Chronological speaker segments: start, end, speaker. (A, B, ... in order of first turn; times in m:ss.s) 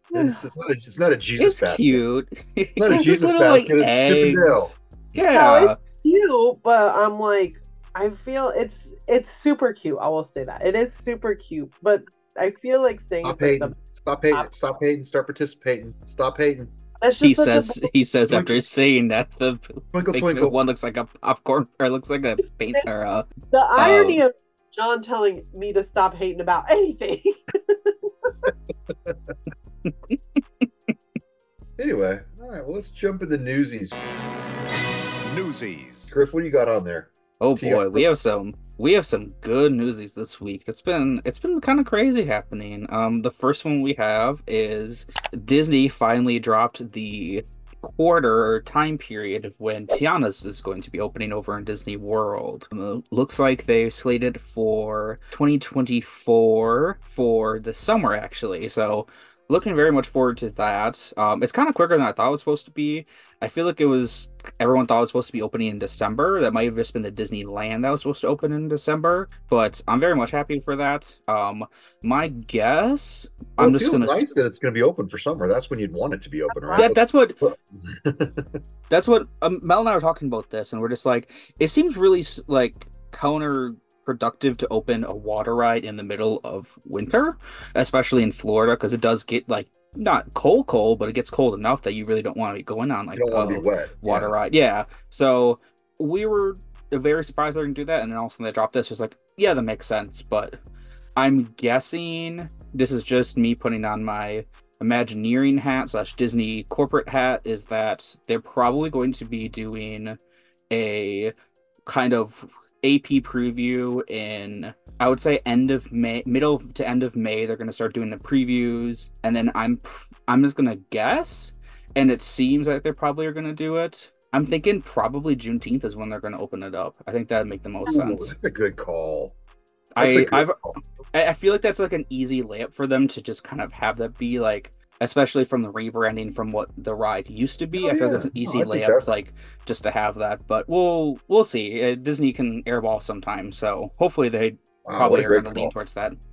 0:00.1-0:00.4 A
0:00.2-0:02.0 B
0:01.4-0:05.8 C
0:02.8-0:04.7 B
0:05.2-0:13.8 A
0:13.2-0:16.7 B
0:17.0-0:17.9 A
0:17.2-0:24.2 C
0:18.3-0:18.6 B
0:19.9-0:20.6 B
0:23.5-0:28.5 A
0:28.9-0:29.3 B
0:29.9-0:30.7 C
0:31.8-0:34.0 B
0:35.3-0:38.2 B
0:37.4-1:14.3 C
1:13.6-1:18.6 B
1:16.5-1:16.9 A
1:16.8-1:17.4 C
1:18.9-1:40.6 C
1:33.2-1:34.3 B
1:41.2-1:50.2 C
1:50.7-1:51.3 C
1:51.9-2:08.3 C
2:07.9-2:09.4 B
2:09.9-2:10.6 C
2:10.0-2:10.8 B
2:11.1-2:26.2 C
2:17.8-2:19.3 B
2:24.9-2:25.7 B